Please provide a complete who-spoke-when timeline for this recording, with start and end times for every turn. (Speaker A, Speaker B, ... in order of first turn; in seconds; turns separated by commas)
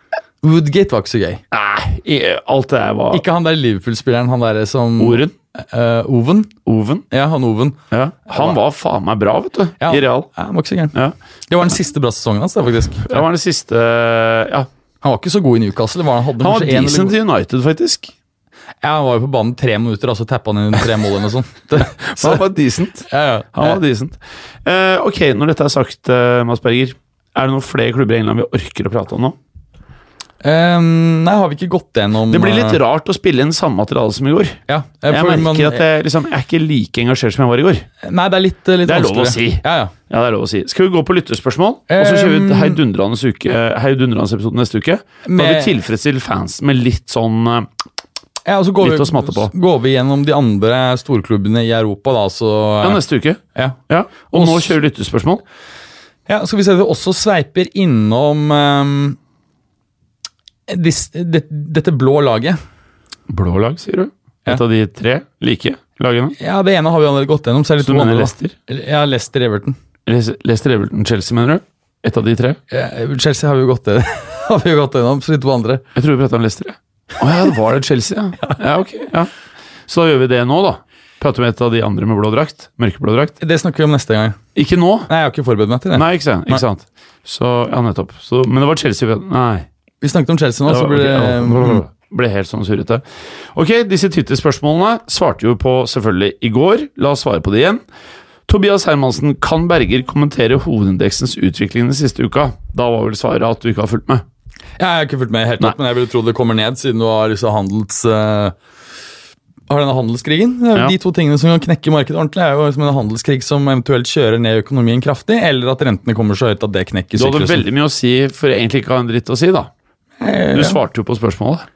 Speaker A: 0.4-1.4, Speaker B: 1.5-3.2, Speaker A: 3.1-6.5, Speaker B: 5.0-5.3, Speaker B: 6.6-7.0, Speaker A: 7.1-8.6, Speaker B: 7.9-10.3, Speaker A: 9.8-10.9, Speaker A: 11.5-13.2, Speaker B: 13.0-14.7, Speaker A: 15.0-17.2, Speaker B: 16.4-18.1, Speaker A: 18.8-22.4, Speaker B: 21.8-29.4, Speaker A: 23.1-23.8, Speaker A: 30.4-32.8, Speaker B: 32.3-37.9, Speaker A: 34.7-35.8, Speaker A: 38.0-39.9, Speaker B: 38.8-47.7, Speaker A: 41.9-42.8, Speaker A: 45.2-45.7, Speaker A: 48.4-53.0, Speaker B: 48.8-49.5, Speaker B: 52.8-55.4, Speaker A: 54.3-54.7, Speaker A: 56.3-59.2, Speaker A: 60.7-62.6, Speaker B: 63.3-66.3, Speaker A: 66.4-69.8, Speaker B: 67.8-68.5, Speaker B: 70.0-72.6, Speaker A: 72.7-75.8, Speaker B: 75.9-79.3, Speaker B: 79.9-83.3, Speaker A: 83.4-84.4, Speaker B: 84.5-85.1, Speaker A: 85.1-86.6, Speaker B: 85.9-89.7, Speaker A: 90.0-91.8, Speaker B: 90.7-97.8, Speaker B: 98.5-104.2, Speaker A: 104.8-108.5, Speaker A: 109.7-117.7, Speaker B: 117.2-119.7, Speaker A: 120.2-120.8, Speaker B: 120.5-121.7